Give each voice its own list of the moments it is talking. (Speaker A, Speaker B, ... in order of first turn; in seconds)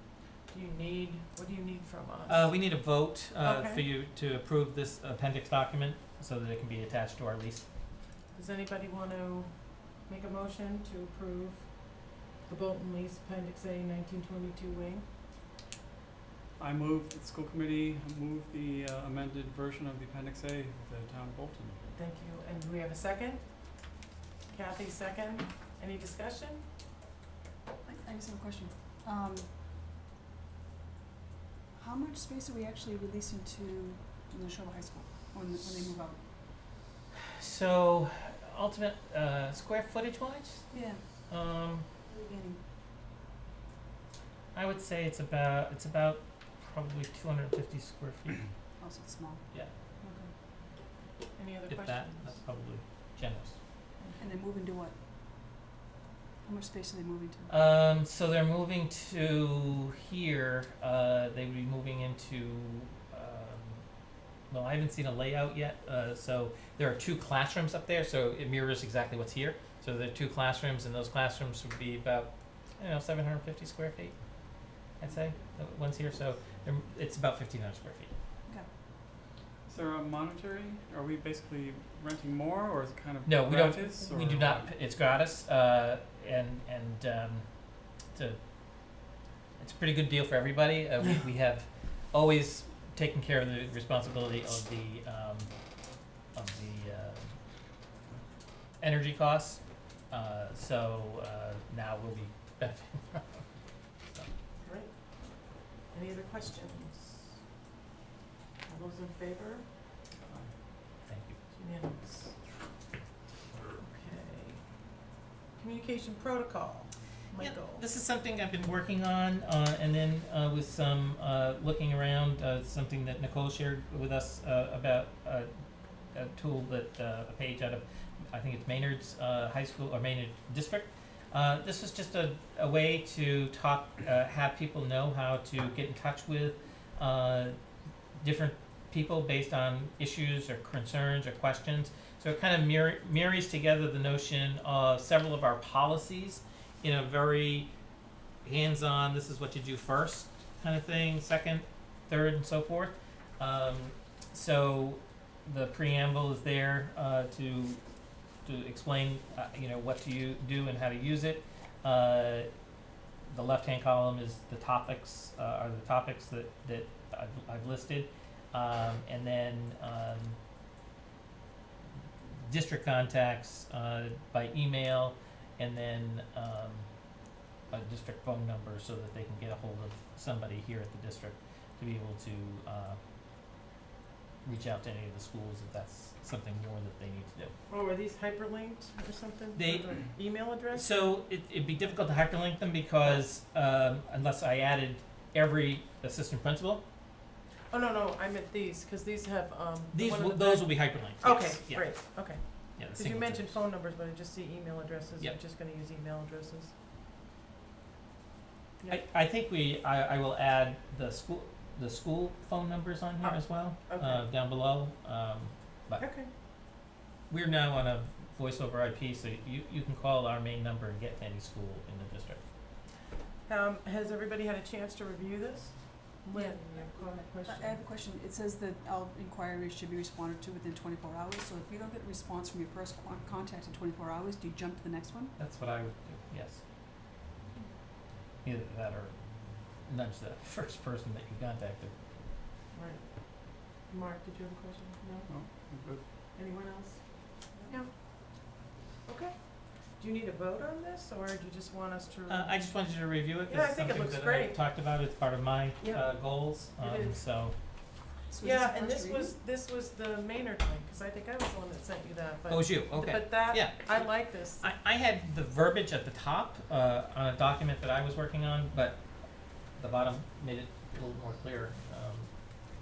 Speaker A: 0.5-2.5, 3.4-3.9, 8.3-9.5, 10.1-15.1, 21.9-23.4, 24.5-26.6, 51.4-52.4, 104.6-104.9, 105.9-107.3, 108.7-109.7, 111.5-112.3, 113.8-114.6, 115.6-117.8, 187.7-190.9, 197.7-206.7, 213.2-214.2, 216.0-216.3, 223.5-227.8, 242.7-245.6, 246.3-247.8, 249.1-249.4, 250.0-252.5, 253.5-254.6, 255.8-257.2, 258.4-264.7
Speaker B: 2.3-7.7, 37.4-40.7, 41.3-41.9, 44.5-48.4, 51.7-53.6, 57.5-63.9, 64.5-74.2, 75.0-78.1, 83.2-87.5, 88.1-88.4, 89.6-95.5, 96.3-97.3, 98.8-103.5, 111.0-111.4, 117.4-125.5, 126.1-137.6, 138.2-147.7, 148.4-157.8, 158.4-162.5, 163.3-170.4, 172.5-176.9, 177.7-183.0, 184.4-187.5, 189.6-190.0, 190.7-196.8, 199.9-201.9, 202.8-203.6, 208.9-216.0, 217.3-222.4, 235.4-236.6, 238.4-239.2, 239.8-241.9, 252.3-257.6, 262.5-269.0, 269.7-272.3
Speaker C: 16.6-21.8, 79.7-84.7, 245.3-246.0
Speaker D: 27.9-29.5, 31.8-36.2, 40.7-41.0, 42.0-42.6, 48.8-49.4, 50.0-50.3, 54.2-54.9, 56.5-57.5, 226.3-235.4, 258.3-259.3